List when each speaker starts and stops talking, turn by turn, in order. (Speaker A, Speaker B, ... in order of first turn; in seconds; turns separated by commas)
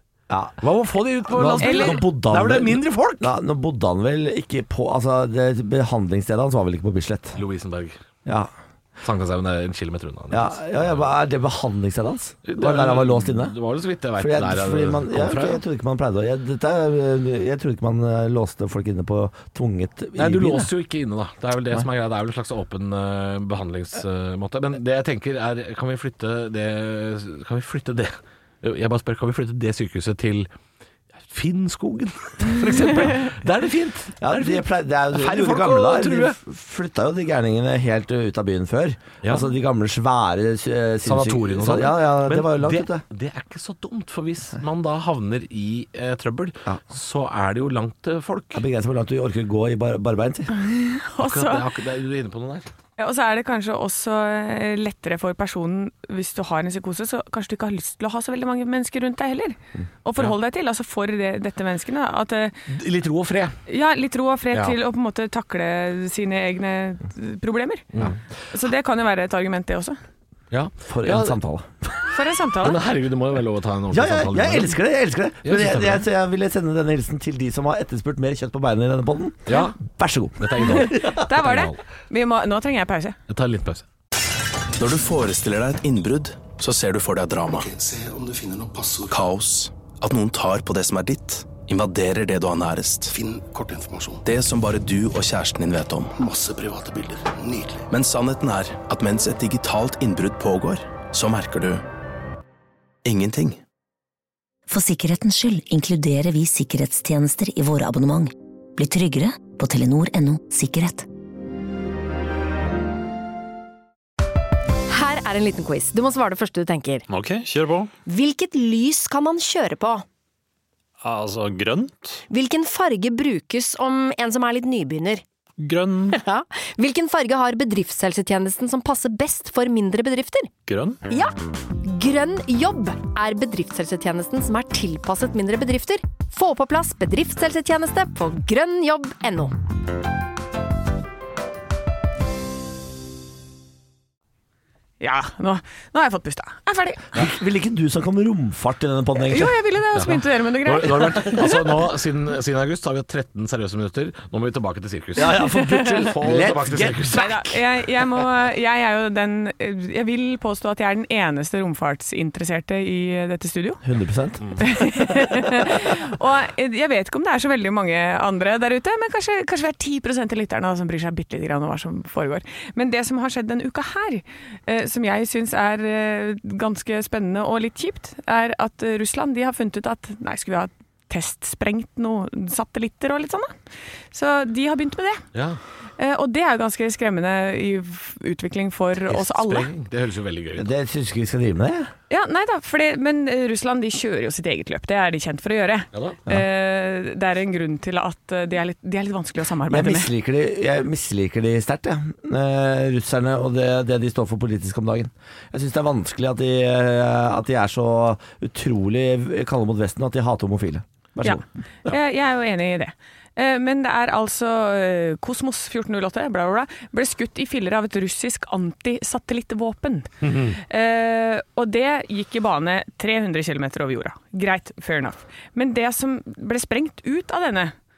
Speaker A: 0.3-0.6, Speaker B: 0.6-3.3, Speaker A: 1.3-7.4, Speaker C: 1.6-2.0, Speaker B: 7.3-8.0, Speaker A: 8.2-8.5, Speaker B: 9.0-11.1, Speaker A: 10.3-13.5, Speaker B: 12.4-15.6, Speaker A: 14.2-20.7, Speaker B: 20.1-30.5, Speaker B: 31.2-36.4, Speaker A: 34.2-43.0, Speaker B: 41.0-48.6, Speaker A: 48.5-50.5, Speaker C: 50.5-51.6, Speaker B: 51.2-52.7, Speaker C: 53.0-62.6, Speaker B: 62.7-63.6, Speaker C: 63.7-67.8, Speaker C: 68.5-70.0, Speaker B: 70.5-71.4, Speaker A: 70.9-71.9, Speaker C: 72.1-72.8, Speaker B: 72.6-74.8, Speaker A: 73.9-81.2, Speaker B: 75.4-76.0, Speaker B: 79.5-79.8, Speaker B: 80.4-81.8, Speaker C: 80.6-83.2, Speaker B: 83.3-83.8, Speaker D: 84.8-87.7, Speaker E: 87.5-89.1, Speaker D: 89.1-93.1, Speaker E: 93.1-94.2, Speaker D: 94.2-96.1, Speaker E: 96.2-97.9, Speaker D: 97.9-101.8, Speaker D: 103.0-103.6, Speaker F: 104.7-111.1, Speaker G: 114.9-117.0, Speaker H: 117.1-117.9, Speaker G: 118.0-120.0, Speaker H: 121.0-122.2, Speaker G: 122.3-125.2, Speaker H: 125.6-126.2, Speaker G: 126.1-130.5, Speaker H: 130.7-131.0, Speaker G: 131.1-139.6, Speaker C: 145.0-147.1, Speaker A: 147.1-149.5, Speaker C: 149.2-151.7, Speaker B: 149.9-155.4, Speaker A: 155.2-157.6, Speaker C: 155.3-156.1, Speaker B: 156.0-157.2, Speaker C: 157.1-163.8, Speaker A: 163.8-165.0, Speaker C: 164.6-183.6, Speaker C: 184.1-185.2, Speaker B: 185.3-185.6, Speaker C: 186.0-189.7, Speaker B: 189.1-190.7, Speaker A: 190.6-191.9, Speaker C: 192.1-200.1, Speaker B: 195.9-196.2, Speaker A: 199.7-211.9, Speaker C: 211.2-227.7, Speaker B: 220.2-220.6